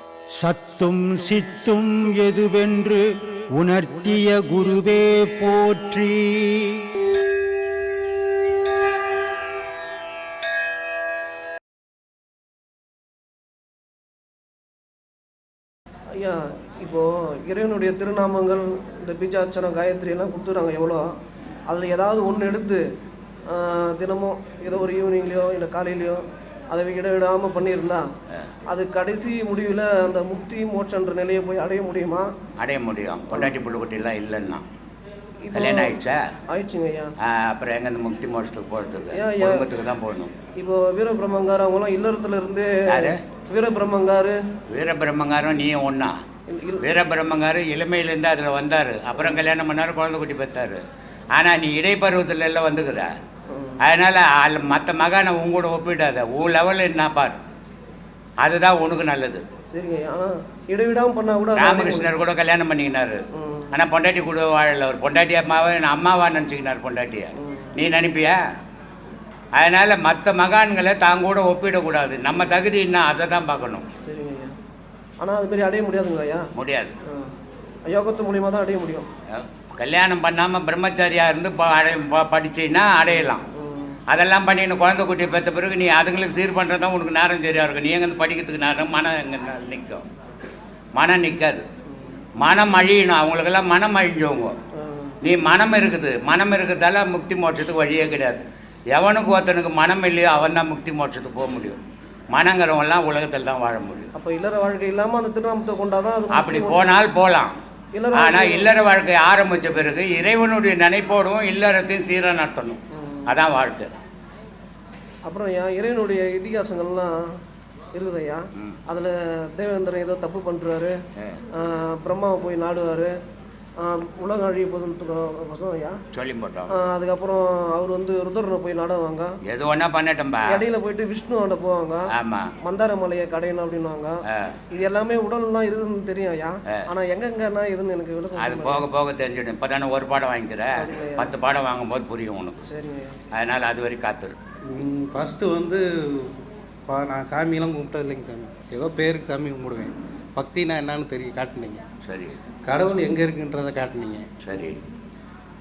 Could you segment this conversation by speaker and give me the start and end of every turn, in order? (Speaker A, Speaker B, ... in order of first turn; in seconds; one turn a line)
Speaker A: 0.3-6.9
Speaker B: 16.2-21.1
Speaker B: 21.7-22.8
Speaker B: 23.5-28.1
Speaker B: 28.7-32.3
Speaker C: 32.6-34.7
Speaker B: 35.4-36.0
Speaker C: 35.5-36.2
Speaker B: 36.5-37.1
Speaker C: 37.2-40.3
Speaker B: 39.1-39.7
Speaker B: 40.6-44.4
Speaker C: 44.7-46.1
Speaker B: 46.5-46.9
Speaker C: 46.8-50.8
Speaker C: 51.3-53.1
Speaker B: 53.5-53.8
Speaker C: 53.8-57.4
Speaker C: 58.4-59.4
Speaker B: 59.7-62.1
Speaker C: 61.6-63.2
Speaker B: 63.3-63.7
Speaker C: 63.7-68.4
Speaker B: 67.4-67.8
Speaker C: 69.6-73.9
Speaker B: 74.0-74.5
Speaker B: 75.2-76.5
Speaker C: 76.6-77.0
Speaker B: 77.1-77.3
Speaker B: 77.9-79.1
Speaker C: 79.3-83.4
Speaker B: 83.5-84.0
Speaker C: 84.1-90.1
Speaker C: 91.0-91.6
Speaker B: 91.9-92.2
Speaker C: 92.4-94.5
Speaker B: 94.8-95.2
Speaker C: 95.2-101.8
Speaker C: 102.3-104.1
Speaker B: 104.2-106.9
Speaker C: 106.3-107.6
Speaker B: 107.9-108.7
Speaker C: 108.2-113.9
Speaker B: 112.9-113.3
Speaker B: 115.2-117.2
Speaker B: 117.9-121.0
Speaker B: 121.5-123.1
Speaker B: 123.8-126.0
Speaker C: 126.1-126.7
Speaker B: 126.7-129.3
Speaker C: 129.5-130.6
Speaker B: 130.5-132.0
Speaker C: 132.1-132.5
Speaker B: 132.6-134.1
Speaker C: 134.3-134.6
Speaker B: 134.7-138.8
Speaker C: 138.4-142.6
Speaker B: 140.8-141.3
Speaker B: 142.6-143.2
Speaker C: 143.3-144.4
Speaker D: 144.7-151.9
Speaker C: 152.1-152.4
Speaker D: 152.7-154.3
Speaker C: 154.4-154.8